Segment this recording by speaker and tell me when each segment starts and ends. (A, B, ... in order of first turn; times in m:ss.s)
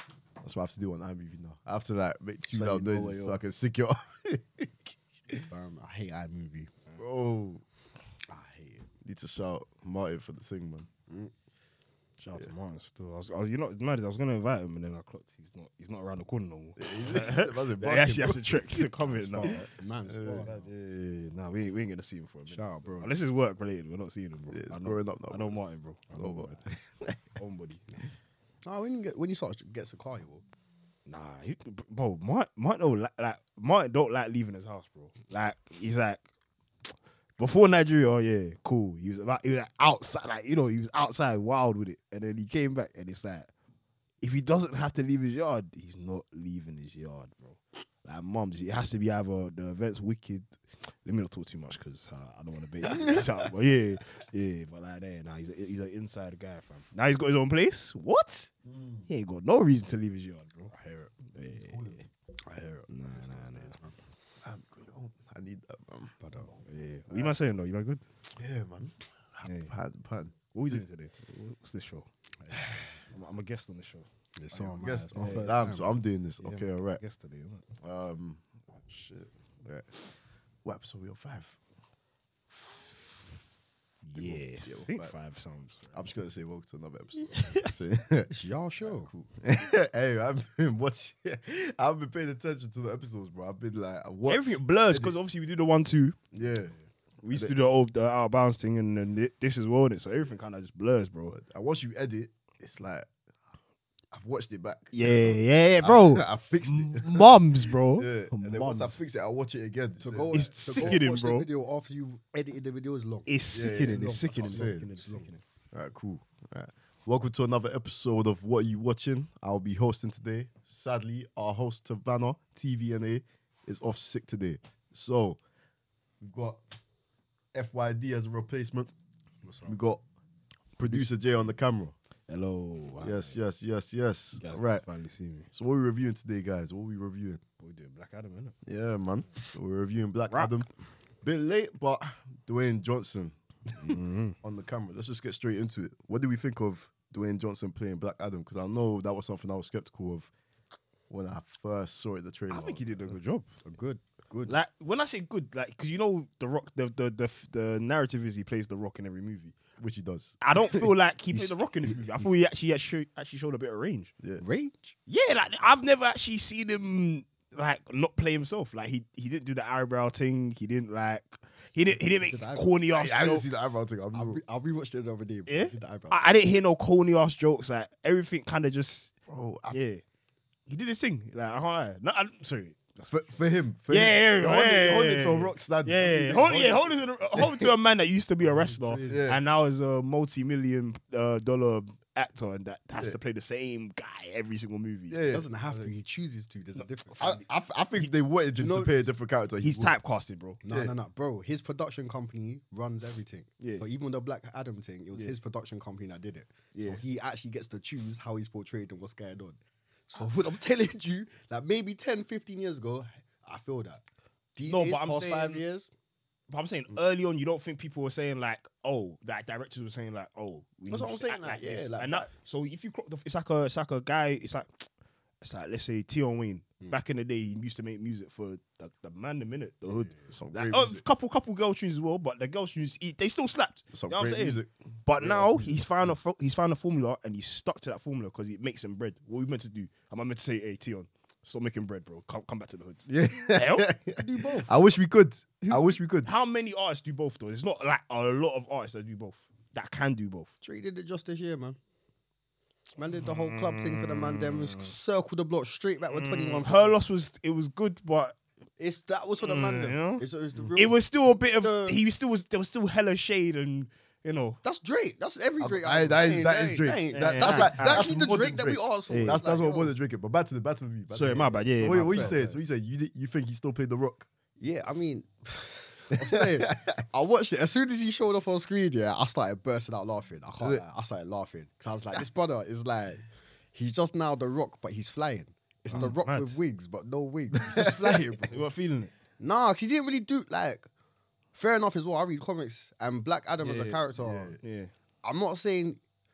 0:00.4-0:05.4 A
0:02.5-0:03.4 B
0:05.5-0:06.7 B
0:07.0-0:07.6 A
0:08.3-0:08.8 B
0:09.0-0:10.9 A
0:12.2-0:19.7 C
0:16.8-0:18.9 A
0:19.2-0:20.6 B
0:19.4-0:20.5 A
0:20.4-0:26.6 C
0:22.5-0:23.1 B
0:24.5-0:27.2 A
0:27.4-0:27.9 C
0:28.7-0:30.4 B
0:31.1-0:36.2 C
0:37.4-0:43.5 C
0:44.2-0:50.5 C
0:51.0-0:58.5 C
0:52.9-0:53.3 A
0:58.6-0:59.1 A
0:59.1-1:02.0 C
1:00.8-1:01.1 B
1:01.6-1:02.0 A
1:02.4-1:04.0 B
1:02.9-1:03.8 C
1:04.4-1:06.1 A
1:06.2-1:06.5 B
1:06.6-1:08.0 C
1:08.3-1:10.8 A
1:09.4-1:09.7 C
1:10.5-1:14.1 C
1:12.5-1:12.9 A
1:14.4-1:15.9 B
1:14.5-1:17.0 A
1:15.1-1:15.5 C
1:16.4-1:17.6 C
1:17.8-1:20.1 A
1:20.6-1:21.6 A
1:24.1-1:26.1 C
1:24.2-1:25.1 A
1:25.9-1:28.3 A
1:27.2-1:27.7 C
1:28.3-1:29.1 B
1:28.8-1:35.2 A
1:34.2-1:36.2 C
1:36.3-1:36.7 A
1:37.2-1:41.4 C
1:41.3-1:43.1 A
1:44.1-1:51.0 A
1:44.9-1:49.0 C
1:50.0-1:55.3 B
1:50.3-1:51.5 C
1:53.3-1:55.4 C
1:53.5-1:54.9 A
1:55.7-2:05.4 A
2:06.2-2:06.6 A
2:07.5-2:08.9 A
2:09.4-2:09.8 B
2:09.7-2:10.0 A
2:10.8-2:11.9 A
2:10.8-2:11.0 C
2:12.3-2:13.3 C
2:13.0-2:14.8 A
2:14.4-2:15.5 C
2:15.5-2:17.4 A
2:17.6-2:18.6 C
2:18.6-2:20.7 A
2:21.2-2:30.3 A
2:23.8-2:24.4 C
2:31.1-2:32.8 A
2:32.5-2:33.5 C
2:33.6-2:34.6 B
2:34.5-2:39.6 C
2:39.8-2:40.9 A
2:40.4-2:44.1 C
2:41.3-2:42.0 B
2:44.4-2:44.9 B
2:45.1-2:53.5 C
2:52.2-2:52.7 B
2:52.9-2:54.4 A
2:54.1-2:56.2 B
2:55.5-2:59.1 C
2:59.3-2:59.8 A
2:59.7-3:00.0 C
3:00.7-3:03.3 C
3:03.1-3:07.7 A
3:03.9-3:15.2 C
3:08.4-3:09.3 B
3:09.1-3:09.4 A
3:15.1-3:15.5 A
3:15.3-3:17.4 B
3:17.2-3:19.9 A
3:18.6-3:18.9 B
3:19.6-3:20.6 C
3:20.6-3:29.6 B
3:20.7-3:20.9 A
3:23.6-3:23.8 C
3:26.7-3:27.0 C
3:30.1-3:34.0 B
3:34.5-3:35.9 B
3:34.7-3:35.6 C
3:36.5-3:44.8 C
3:40.9-3:42.3 B
3:45.4-4:03.9 C
3:50.3-3:51.0 A
3:53.9-3:55.8 A
4:03.1-4:06.3 A
4:04.2-4:04.7 B
4:05.7-4:10.5 C
4:10.6-4:11.8 B
4:13.0-4:17.0 B
4:13.2-4:14.9 C
4:16.1-4:18.4 C
4:18.8-4:22.0 B
4:19.4-4:20.2 C
4:20.8-4:24.6 C
4:24.6-4:29.9 B
4:25.6-4:34.3 A
4:27.1-4:28.1 C
4:29.1-4:29.4 C
4:31.1-4:32.5 C
4:31.8-4:32.5 B
4:34.6-4:43.2 B
4:36.2-4:37.0 A
4:43.7-4:48.6 B
4:45.9-4:46.6 C
4:47.6-4:48.4 A
4:48.5-4:49.1 C
4:49.4-4:50.9 B
4:51.5-4:54.6 B
4:53.6-4:54.0 C
4:54.2-4:54.6 A
4:54.6-4:54.9 C
4:55.2-4:56.0 B